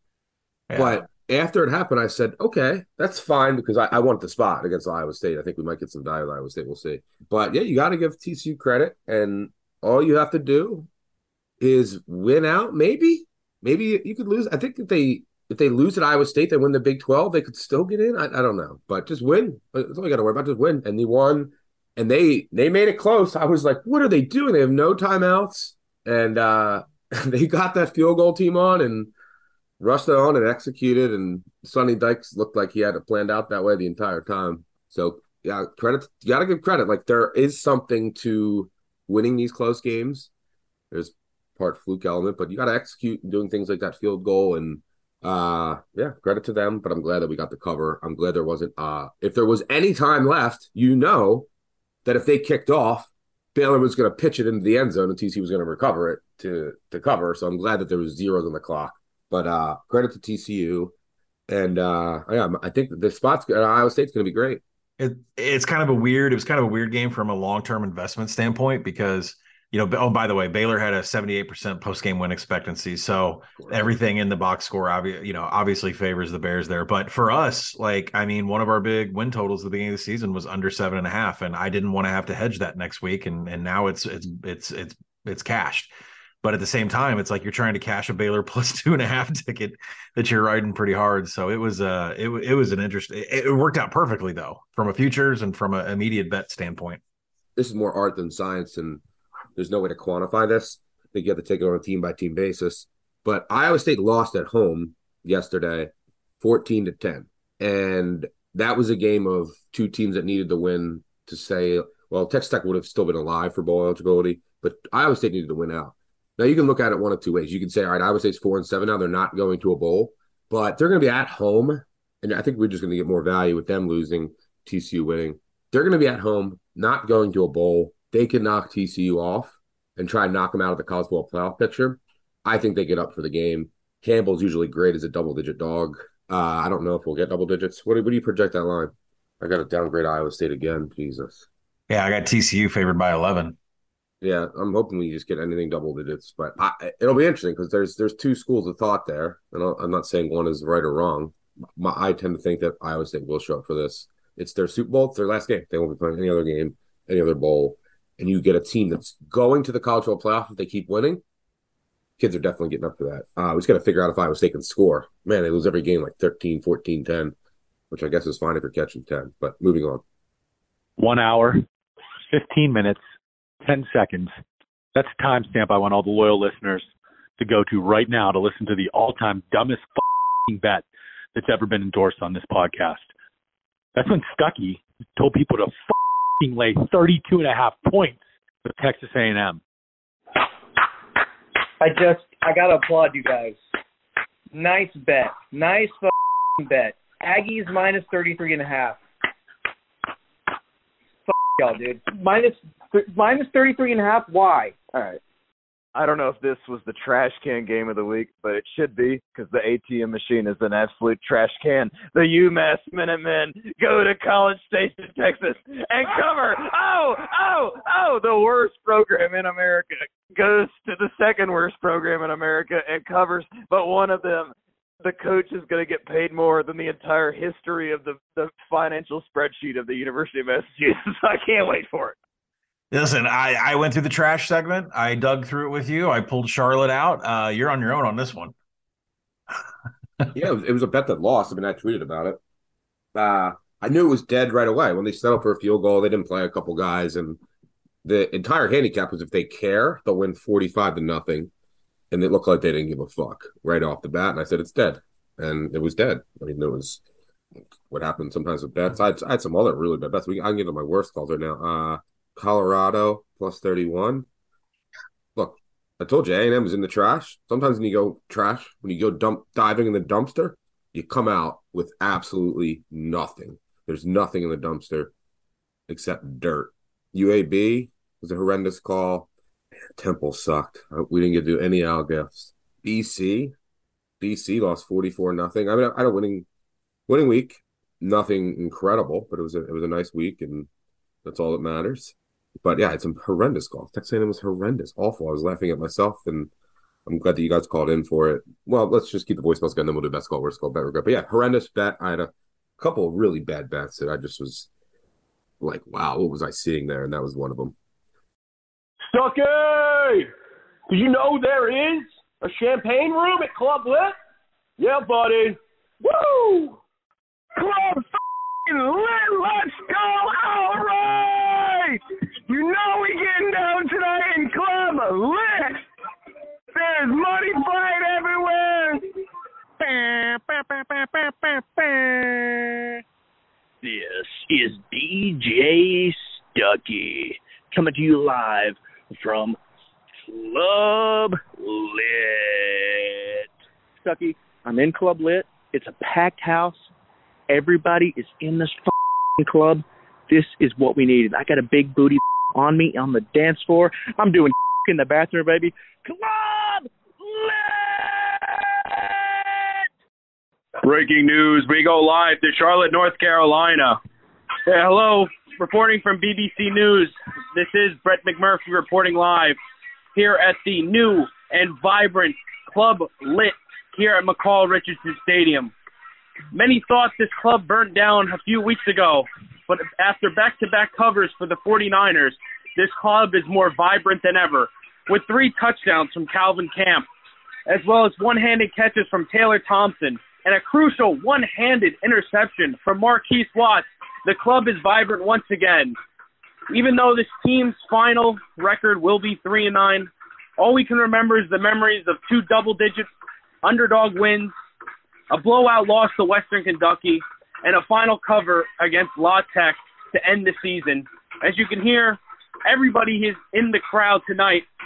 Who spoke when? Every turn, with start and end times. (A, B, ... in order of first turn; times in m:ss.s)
0:00.7-0:01.0 A
0:00.7-0:10.9 B
0:11.6-0:29.1 B
0:29.8-0:40.3 B
0:40.9-0:51.5 B
0:52.0-1:00.9 B
1:01.5-1:04.6 B
1:05.0-1:25.9 A
1:26.4-1:37.0 A
1:37.6-1:39.0 B
1:39.6-2:21.5 B
2:21.9-2:23.6 A
2:24.2-2:41.2 B
2:42.2-2:47.3 B
2:47.9-2:50.0 B
2:51.0-2:51.6 C
2:52.3-2:53.0 C
2:53.6-2:54.3 C
2:54.9-2:56.8 C
2:57.4-3:00.8 C
3:01.3-3:03.1 C
3:03.9-3:09.6 C
3:11.8-3:13.6 D
3:14.5-3:19.0 D
3:21.3-3:24.7 D
3:24.9-3:25.2 E
3:25.9-3:52.1 E
3:52.9-3:58.5 A
4:00.3-4:02.4 B
4:03.1-4:07.4 B
4:08.0-4:11.5 B
4:12.1-4:17.0 B
4:17.9-4:24.2 B
4:25.3-4:35.1 B
4:35.9-4:39.3 B
4:40.0-4:43.5 B
4:44.2-4:46.4 B
4:47.1-4:50.7 B
4:51.2-4:56.5 B
4:57.0-5:04.7 B
5:05.6-5:07.7 B
5:09.1-5:10.2 F
5:10.9-5:14.1 F
5:14.8-5:15.6 F
5:17.6-5:18.0 G
5:18.7-5:25.8 G
5:26.7-5:29.0 G
5:29.8-5:30.6 G
5:31.8-5:32.3 G
5:33.8-5:39.6 H
5:40.3-5:43.4 H
5:44.0-5:46.9 H
5:47.5-5:59.1 H
6:00.8-6:04.0 F
6:04.6-6:09.6 F
6:10.1-6:15.7 F
6:16.5-6:27.1 F
6:27.7-6:36.0 F
6:36.7-6:43.1 F
6:43.6-6:44.5 F
6:45.3-6:54.6 F